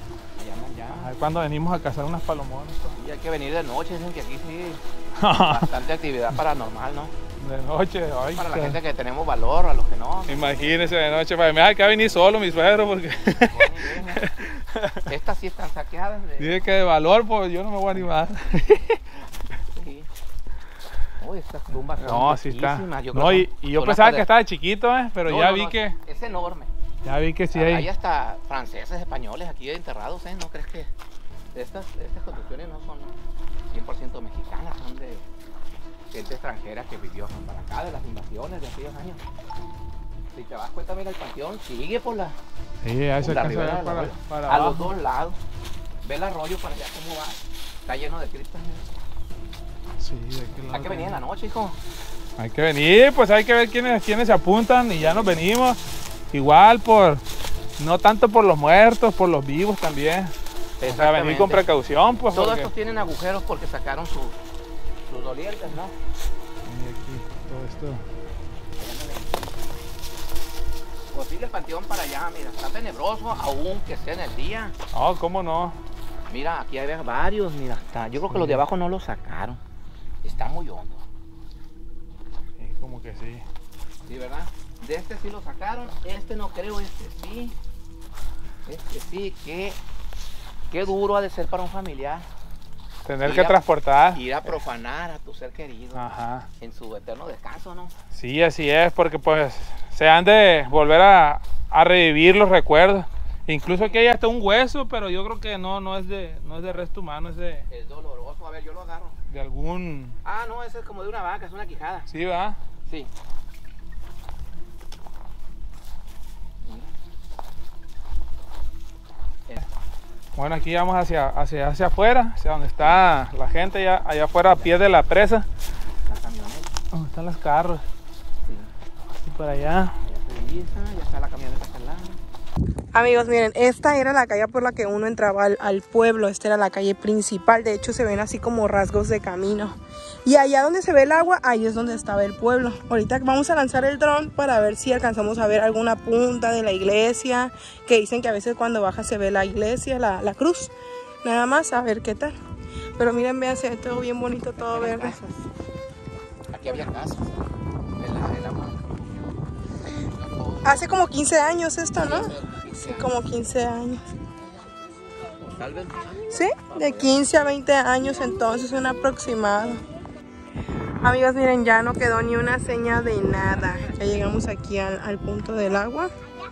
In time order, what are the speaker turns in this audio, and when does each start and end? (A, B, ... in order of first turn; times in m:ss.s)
0:00.4-0:01.1 A
0:00.9-0:03.0 B
0:03.0-0:07.1 A
0:05.2-0:05.7 B
0:07.4-0:08.8 B
0:08.3-0:11.2 A
0:10.3-0:15.1 B
0:13.4-0:14.2 A
0:15.1-0:16.6 A
0:16.4-0:19.2 B
0:19.7-0:20.1 A
0:21.2-0:24.3 A
0:22.0-0:26.0 B
0:25.2-0:26.7 A
0:27.0-0:27.9 B
0:27.5-0:30.9 A
0:31.5-0:33.2 A
0:33.7-0:35.3 A
0:36.1-0:39.2 A
0:40.3-0:42.4 A
0:42.8-0:44.9 B
0:43.2-0:45.4 A
0:46.0-0:48.9 A
0:50.0-0:51.2 B
0:50.7-0:51.8 A
0:52.4-0:55.8 B
0:54.9-0:55.4 A
0:56.3-0:57.2 B
0:57.8-1:02.7 B
1:00.8-1:01.7 A
1:02.3-1:04.4 A
1:05.1-1:06.0 A
1:06.6-1:08.0 B
1:08.8-1:09.6 A
1:11.1-1:14.8 A
1:14.9-1:15.8 B
1:16.3-1:19.6 A
1:18.3-1:18.6 B
1:20.2-1:21.0 A
1:22.6-1:23.4 B
1:24.1-1:27.6 A
1:28.6-1:29.8 A
1:30.7-1:32.3 A
1:33.0-1:34.2 B
1:33.2-1:33.6 A
1:34.1-1:36.1 A
1:36.0-1:36.5 B
1:36.6-1:37.9 A
1:38.1-1:47.7 B
1:43.7-1:44.0 A
1:47.7-1:49.2 A
1:49.3-1:50.2 B
1:50.2-1:52.1 A
1:52.1-1:52.6 B
1:52.9-1:53.1 A
1:56.6-1:56.9 A
2:00.4-2:05.5 B
2:02.8-2:03.1 A
2:04.5-2:04.8 A
2:06.1-2:06.7 A
2:06.9-2:07.8 B
2:08.4-2:08.7 A
2:09.2-2:10.0 B
2:10.1-2:12.2 A
2:12.9-2:30.7 C
2:31.2-2:32.4 C
2:33.0-2:35.2 C
2:34.6-2:35.5 A
2:36.5-2:37.4 A
2:38.0-2:40.9 A
2:40.6-2:44.0 C
2:42.0-2:43.1 A
2:44.4-2:44.7 A
2:45.4-2:47.2 A
2:46.3-2:49.8 C
2:51.0-2:56.1 C